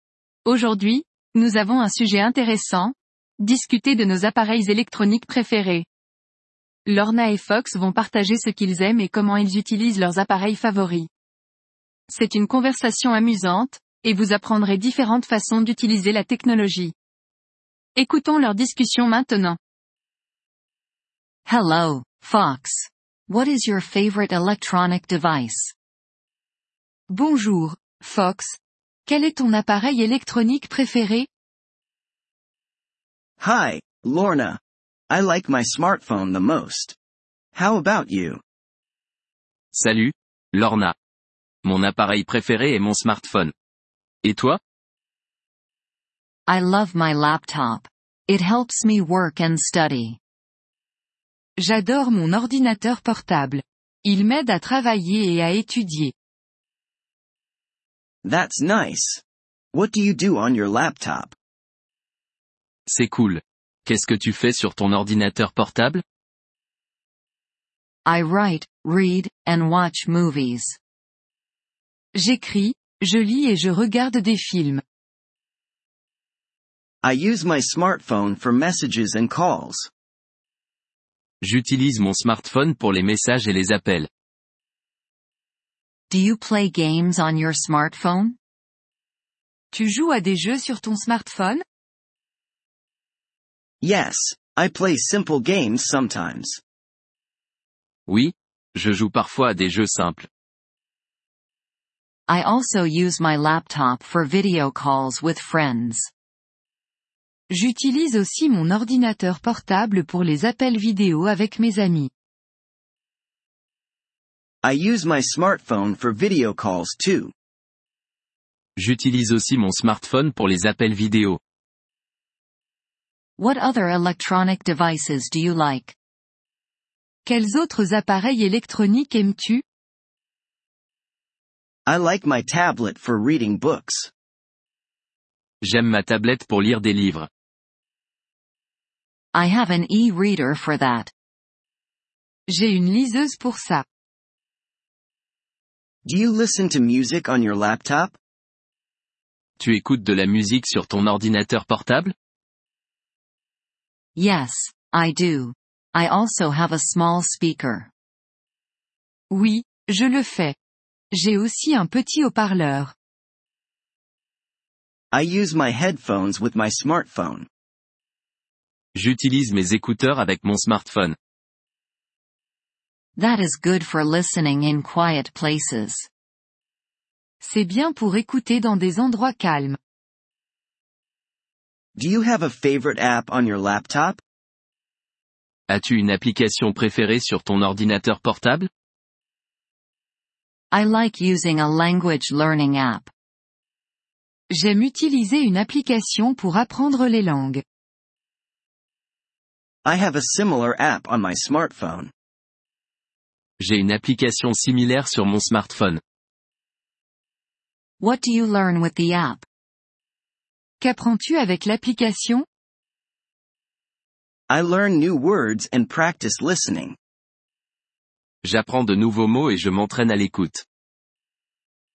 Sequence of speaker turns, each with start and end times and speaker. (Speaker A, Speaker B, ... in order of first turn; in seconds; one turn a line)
Speaker A: 0.4-5.9
Speaker A: 6.8-11.1
Speaker A: 12.1-16.9
Speaker A: 17.9-19.6
Speaker B: 21.4-25.7
Speaker A: 27.1-31.3
Speaker C: 33.4-37.0
Speaker C: 37.5-38.4
Speaker D: 39.7-40.9
Speaker D: 41.6-43.5
Speaker D: 44.2-44.6
Speaker B: 46.5-50.2
Speaker A: 51.6-56.1
Speaker C: 58.2-61.3
Speaker D: 62.9-66.0
Speaker B: 68.0-70.8
Speaker A: 72.1-74.8
Speaker C: 77.0-79.9
Speaker D: 81.4-84.1
Speaker B: 86.1-88.4
Speaker A: 89.7-91.6
Speaker C: 93.8-96.6
Speaker D: 98.1-100.3
Speaker B: 102.3-106.1
Speaker A: 107.5-112.1
Speaker C: 114.6-117.3
Speaker D: 118.8-121.4
Speaker B: 123.4-125.9
Speaker A: 127.2-129.6
Speaker C: 131.9-134.1
Speaker D: 135.6-137.3
Speaker B: 139.3-141.1
Speaker A: 142.5-143.8
Speaker C: 146.0-148.2
Speaker D: 149.6-152.1
Speaker B: 154.2-157.9
Speaker A: 159.3-160.6
Speaker A: 161.1-162.9
Speaker C: 165.1-167.5
Speaker D: 168.9-171.2
Speaker B: 173.2-176.1
Speaker A: 177.4-179.8
Speaker C: 181.9-184.2
Speaker D: 185.7-188.7
Speaker B: 190.7-193.1
Speaker A: 194.5-197.6
Speaker C: 199.8-202.1
Speaker D: 203.6-206.0
Speaker B: 208.0-209.4
Speaker A: 210.8-212.4
Speaker C: 214.5-216.9
Speaker D: 218.4-220.6